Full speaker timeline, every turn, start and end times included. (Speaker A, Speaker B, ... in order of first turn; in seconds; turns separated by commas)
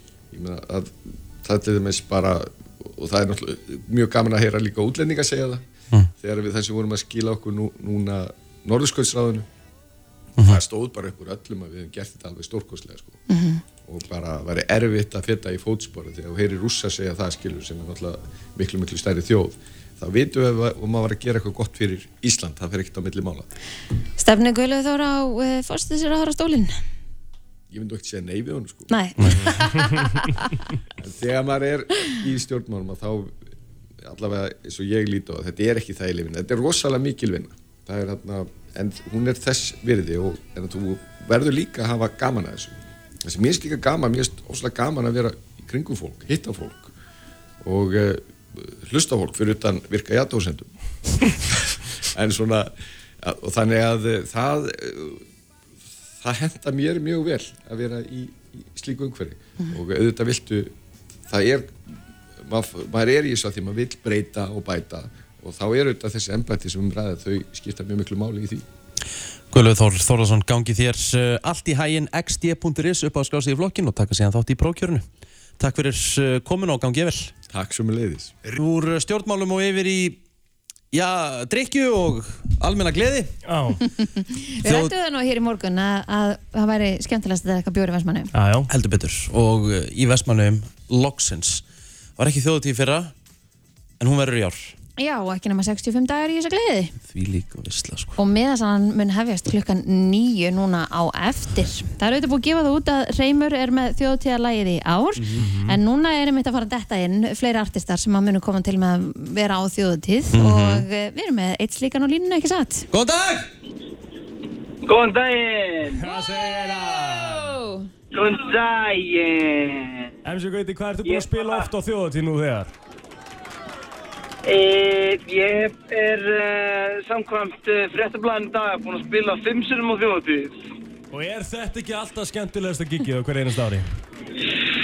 Speaker A: 0.3-5.6, Speaker A: 6.2-9.5, Speaker A: 10.4-13.2, Speaker B: 13.3-13.6, Speaker A: 13.8-23.5, Speaker B: 24.2-26.7, Speaker A: 27.7-28.9, Speaker B: 28.9-30.4, Speaker C: 29.2-30.1, Speaker A: 31.0-33.3, Speaker A: 34.0-46.9, Speaker A: 47.6-50.7, Speaker A: 51.2-52.7, Speaker A: 53.2-55.2, Speaker A: 56.2-60.7, Speaker A: 61.3-61.8, Speaker A: 62.4-68.6, Speaker D: 69.5-75.0, Speaker D: 75.6-77.3, Speaker A: 77.5-78.3, Speaker D: 78.5-80.2, Speaker D: 80.9-83.3, Speaker C: 83.5-83.8, Speaker B: 83.8-88.3, Speaker D: 84.6-84.9, Speaker C: 88.3-88.7, Speaker D: 88.7-91.6, Speaker D: 92.2-93.1, Speaker D: 94.0-94.7, Speaker B: 95.0-96.9, Speaker D: 97.0-98.2, Speaker B: 98.2-112.9, Speaker D: 105.2-105.4, Speaker C: 105.4-105.8, Speaker D: 110.3-110.8, Speaker D: 112.9-113.5, Speaker E: 114.8-116.1, Speaker C: 116.0-117.5, Speaker B: 116.7-117.9, Speaker E: 118.1-120.1, Speaker C: 120.2-122.7, Speaker E: 121.0-121.7, Speaker E: 124.4-130.5, Speaker C: 131.1-133.8